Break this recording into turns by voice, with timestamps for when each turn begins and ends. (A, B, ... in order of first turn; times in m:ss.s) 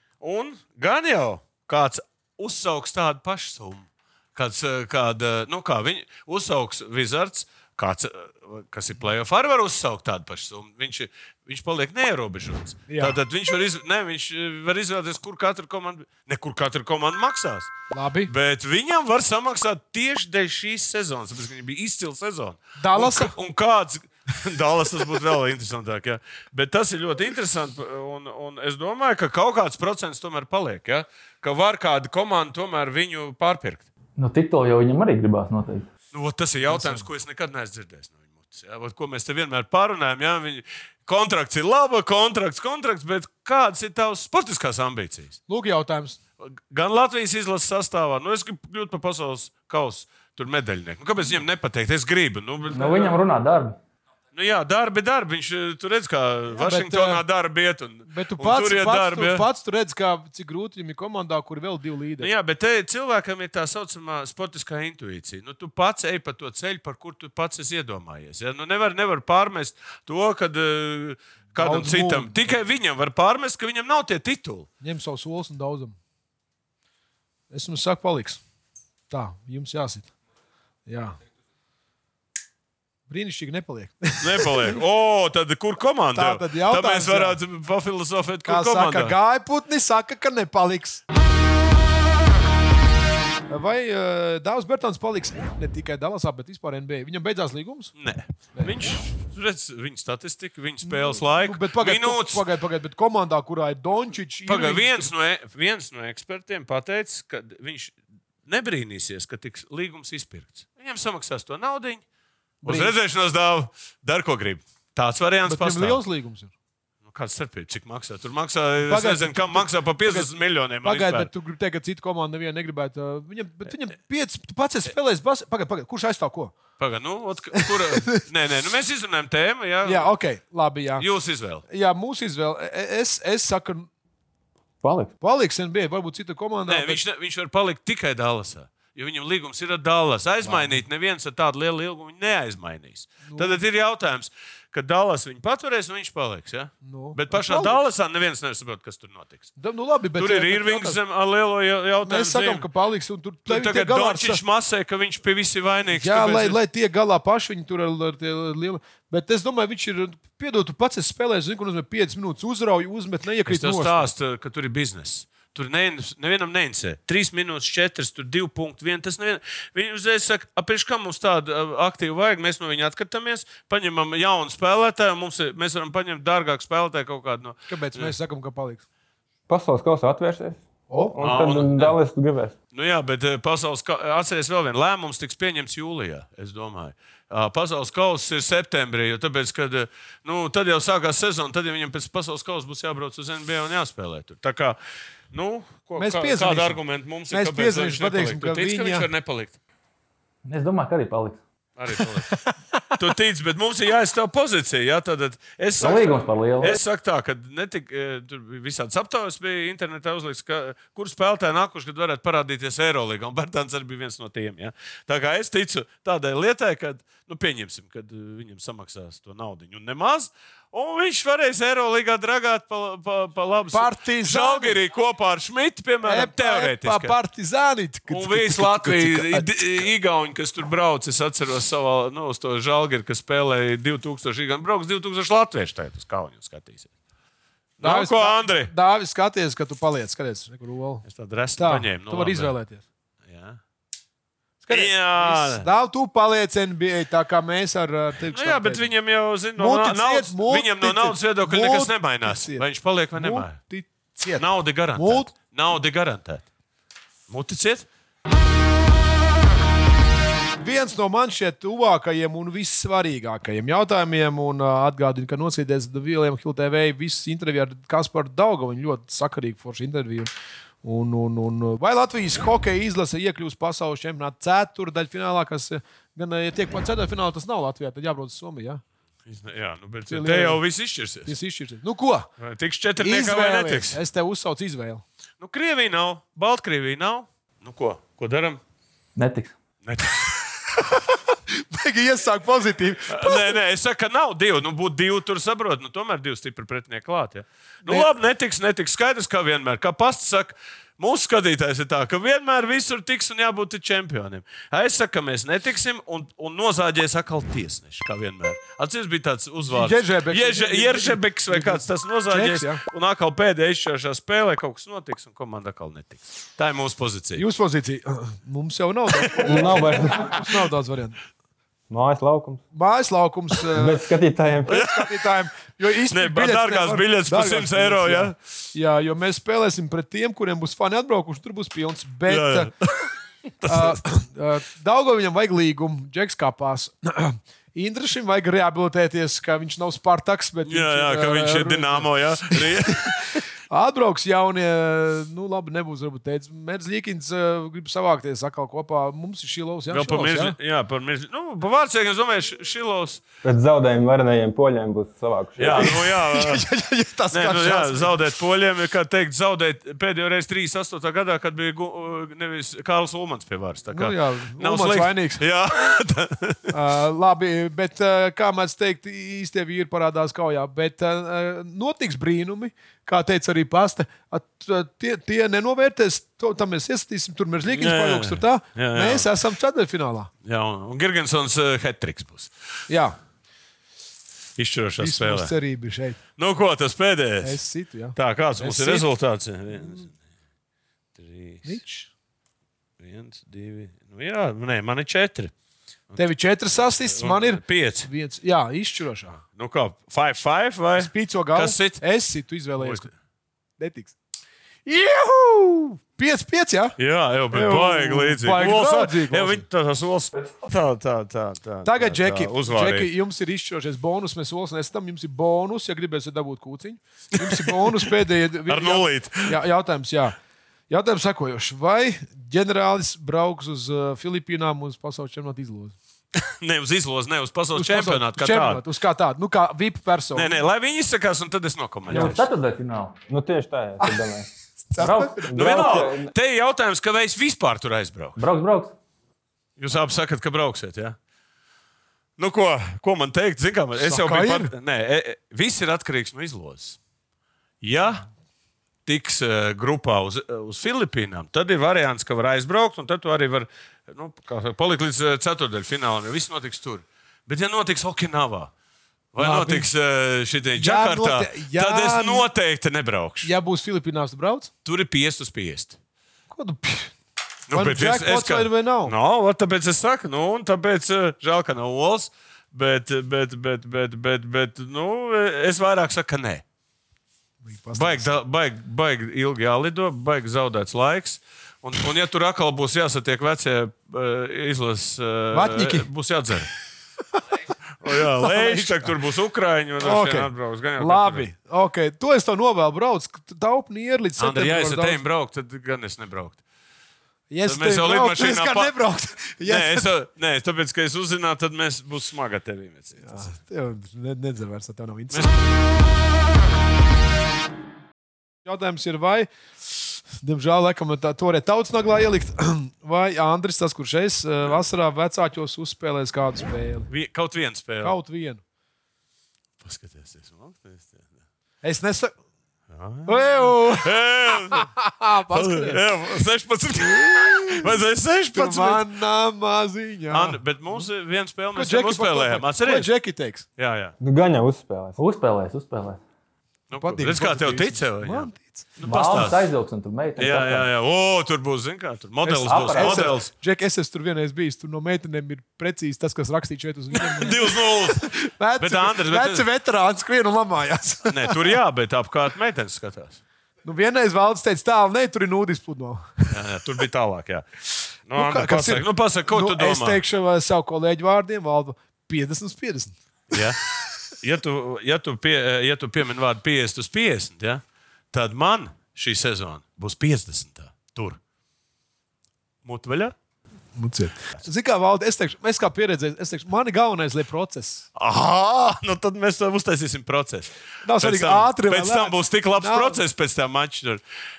0:00.2-0:17.7 A
0:12.9-0:13.2 B
0:17.9-0:18.3 B
0:18.3-0:33.8 A
0:22.8-0:23.3 B
0:34.2-0:35.9 C
0:36.1-0:45.4 A
0:36.7-0:37.1 B
0:45.5-0:46.2 B
0:46.4-0:53.2 A
0:52.7-0:53.8 C
0:54.3-0:59.4 A
0:56.6-0:57.2 B
0:58.1-1:02.3 B
1:02.2-1:14.7 A
1:11.5-1:12.5 B
1:14.8-1:16.0 B
1:17.5-1:18.4 B
1:19.1-1:20.1 B
1:20.9-1:21.2 B
1:23.1-1:24.8 B
1:24.2-1:29.1 A
1:26.1-1:27.4 B
1:28.4-1:31.0 B
1:33.5-1:37.9 B
1:38.0-1:42.4 A
1:40.8-1:45.1 B
1:44.5-1:52.0 A
1:52.6-1:52.9 B
1:52.6-1:56.0 A
1:55.4-1:56.5 B
1:57.0-2:01.3 A
1:58.8-2:06.5 B
2:06.8-2:10.1 A
2:07.6-2:08.2 B
2:09.8-2:11.1 B
2:11.0-2:11.6 A
2:11.7-2:13.9 B
2:14.8-2:15.1 D
2:15.2-2:17.0 B
2:16.7-2:29.5 A
2:20.4-2:20.8 B
2:23.2-2:23.6 B
2:26.8-2:27.8 B
2:29.6-2:31.0 B
2:30.2-2:32.7 A
2:32.0-2:34.4 B
2:33.5-2:36.6 A
2:35.9-2:44.1 B
2:43.4-2:58.1 A
2:57.7-2:58.8 B
2:59.5-3:02.5 D
3:00.9-3:01.2 B
3:01.2-3:02.0 A
3:02.7-3:14.8 A
3:15.3-3:19.6 A
3:16.0-3:19.1 B
3:20.4-3:21.4 C
3:21.8-3:22.4 A
3:22.3-3:22.9 B
3:23.0-3:47.1 A
3:25.8-3:26.7 C
3:43.7-3:44.8 B
3:46.0-3:49.9 B
3:48.1-3:56.9 A
3:57.8-3:58.7 A
3:57.8-4:01.0 B
4:01.0-4:02.5 A
4:01.6-4:02.8 B
4:03.3-4:03.6 A
4:04.6-4:08.9 B
4:04.7-4:05.7 A
4:08.3-4:13.6 A
4:09.6-4:15.3 B
4:14.4-4:16.4 A
4:17.3-4:17.8 A
4:20.6-4:30.3 B
4:30.8-4:38.8 B
4:39.2-4:41.3 A
4:40.1-4:40.6 B
4:41.2-4:42.3 B
4:42.4-4:44.0 A
4:43.0-4:45.0 B
4:45.4-4:48.6 A
4:49.2-4:49.5 C
4:49.8-4:50.4 A
4:50.9-4:53.6 B
4:53.1-5:17.4 A
4:57.8-4:58.1 B
5:09.7-5:12.8 B
5:17.4-5:21.2 B
5:19.4-5:20.4 D
5:21.9-5:22.6 D
5:22.7-5:24.0 B
5:23.7-5:24.8 D
5:24.7-5:25.2 A
5:24.7-5:32.7 B
5:26.1-5:28.4 A
5:32.2-5:33.1 A
5:33.6-5:34.0 A
5:33.6-5:50.6 B
5:40.6-5:43.2 A
5:49.9-5:53.2 A
5:53.4-5:56.1 D
5:55.6-5:56.6 A
5:55.7-5:58.2 B
5:57.3-6:06.7 A
6:03.9-6:05.4 B
6:06.7-6:20.3 B
6:17.7-6:19.3 A
6:20.4-6:22.5 A
6:22.9-6:23.2 B
6:24.6-6:25.5 A
6:25.0-6:26.2 B
6:26.4-6:27.6 A
6:27.4-6:29.0 B
6:28.1-6:30.1 A
6:31.2-6:31.8 A
6:31.6-6:32.1 B
6:33.0-6:35.5 A
6:36.2-6:39.4 B
6:37.1-6:38.1 A
6:39.3-6:42.0 A
6:41.0-6:43.1 B
6:42.8-6:43.1 A
6:43.8-6:44.1 B
6:44.8-6:47.0 B
6:47.0-6:53.1 A
6:47.5-6:49.6 B
6:51.8-7:00.3 B
6:57.4-6:58.1 A
6:58.7-6:59.5 A
7:00.9-7:05.9 B
7:06.4-7:08.8 A
7:07.7-7:10.5 B
7:10.3-7:12.4 A
7:12.1-7:13.1 C
7:12.1-7:12.4 D
7:13.3-7:14.5 D
7:14.9-7:15.9 B
7:15.0-7:15.4 C
7:15.1-7:16.3 D
7:15.5-7:18.4 A
7:18.4-7:18.9 C
7:19.8-7:21.2 A
7:22.4-7:27.0 A
7:24.0-7:24.7 B
7:27.8-7:28.2 A
7:29.0-7:38.7 A
7:39.3-7:43.5 A
7:39.4-7:39.9 B
7:40.8-7:42.5 B
7:43.4-7:44.7 B
7:44.8-7:46.0 A
7:46.5-7:47.1 B
7:47.7-7:56.6 A
7:47.7-7:49.1 B
7:57.6-7:58.3 B
7:58.0-8:06.7 A
8:05.5-8:06.1 B
8:08.0-8:11.5 A
8:08.1-8:09.1 B
8:10.0-8:15.2 B
8:14.4-8:16.6 A
8:17.5-8:20.1 B
8:17.6-8:18.9 A
8:19.6-8:23.5 A
8:23.2-8:25.6 B
8:28.6-8:37.1 B
8:37.1-8:38.2 A
8:38.0-8:38.6 B
8:39.8-8:41.2 A
8:41.8-8:42.3 B
8:42.9-8:44.9 A
8:43.2-8:44.1 B
8:44.7-8:46.0 B
8:45.5-8:49.0 A
8:47.0-8:47.9 B
8:48.5-8:51.0 B
8:50.3-8:53.1 A
8:51.7-8:53.6 B
8:53.8-8:54.1 A
8:54.2-8:55.2 D
8:55.2-8:56.2 C
8:56.9-8:59.7 A
8:57.0-8:58.8 B
8:59.0-9:00.9 C
9:00.4-9:03.5 A
9:02.4-9:11.7 B
9:02.6-9:03.3 C
9:07.2-9:09.6 A
9:11.3-9:13.4 A
9:13.8-9:16.5 B
9:16.5-9:17.6 A
9:18.3-9:20.2 A
9:18.3-9:23.1 B
9:23.5-9:23.8 A
9:24.4-9:31.4 A
9:32.8-9:33.3 A
9:34.0-9:38.0 B
9:38.2-9:44.2 A
9:41.0-9:43.2 B